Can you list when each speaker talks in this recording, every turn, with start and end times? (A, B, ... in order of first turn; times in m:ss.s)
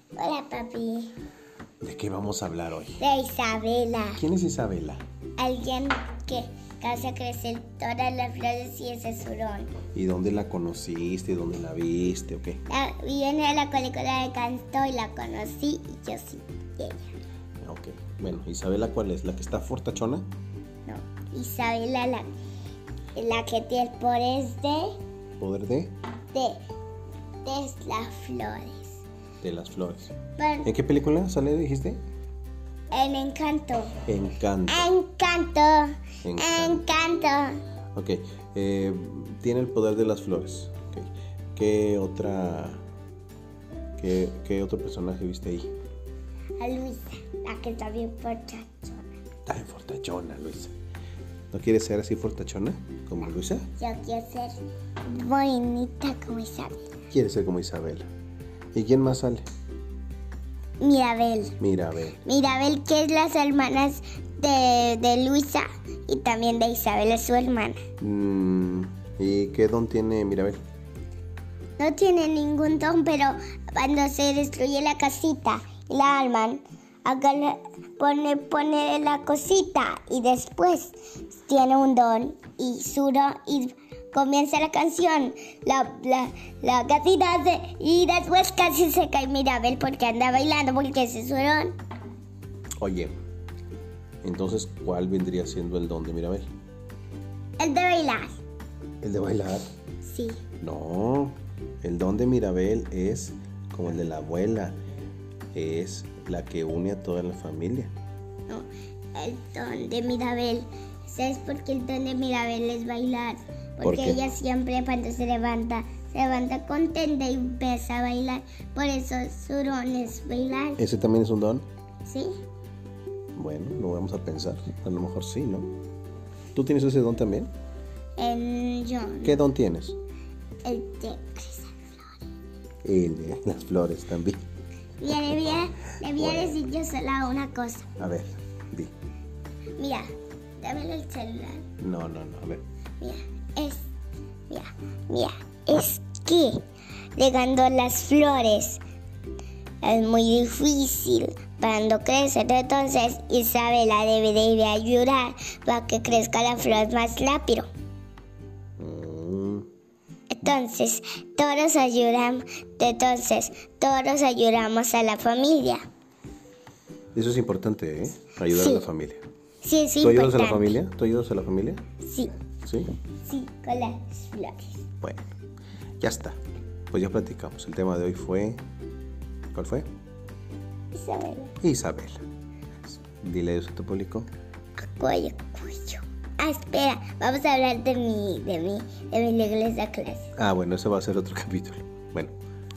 0:00.2-0:01.1 A
0:01.8-0:03.0 B
0:03.0-0:04.2 A
0:04.2-0:05.0 B
0:05.4-0:09.8 A
0:09.9-0:12.6 B
0:12.7-0:17.1 A
0:17.6-0:20.3 B
0:20.8-0:22.4 A
0:23.1-0:25.0 A
0:25.4-0:25.9 B
0:26.3-0:26.6 A
0:27.4-0:29.0 A
0:29.4-0:32.0 B
0:30.4-0:30.7 A
0:32.9-0:34.0 A
0:34.0-0:34.9 B
0:34.7-0:37.6 A
0:36.2-0:36.8 B
0:37.9-0:42.8 B
0:44.0-0:45.7 B
0:46.6-0:49.2 A
0:49.5-0:50.7 B
0:51.5-0:53.7 B
0:53.8-0:56.8 A
0:57.1-0:58.1 B
0:58.7-0:59.4 B
1:00.8-1:01.6 A
1:01.6-1:02.2 B
1:02.2-1:07.8 A
1:08.0-1:10.6 B
1:11.8-1:31.7 A
1:32.8-1:33.1 B
1:34.2-1:36.5 B
1:37.6-1:38.4 A
1:39.0-1:39.6 B
1:40.0-1:40.4 A
1:40.6-1:44.8 B
1:45.5-1:47.9 B
1:48.5-2:00.8 A
1:53.8-1:54.2 B
2:00.8-2:01.7 B
2:02.0-2:02.4 A
2:03.3-2:05.7 B
2:06.5-2:07.5 B
2:08.2-2:09.5 A
2:09.2-2:10.0 B
2:10.6-2:12.2 A
2:12.8-2:14.4 B
2:15.0-2:17.9 A
2:15.1-2:16.6 B
2:18.0-2:18.9 B
2:19.8-2:20.1 A
2:20.6-2:21.6 A
2:21.8-2:22.6 B
2:23.0-2:23.9 A
2:24.5-2:26.6 A
2:27.2-2:28.8 A
2:29.8-2:37.7 A
2:38.8-2:39.7 B
2:40.3-2:45.8 A
2:47.1-2:49.2 B
2:48.5-2:48.8 A
2:49.6-2:50.8 A
2:50.0-2:51.8 B
2:52.0-2:52.3 A
2:52.6-2:52.9 B
2:53.2-2:54.8 A
2:55.0-2:55.3 B
2:56.0-2:56.4 B
2:56.9-2:58.6 B
2:59.5-2:59.9 B
3:00.9-3:01.5 A
3:01.6-3:02.2 B
3:03.1-3:04.3 B
3:04.8-3:10.3 A
3:10.4-3:12.3 B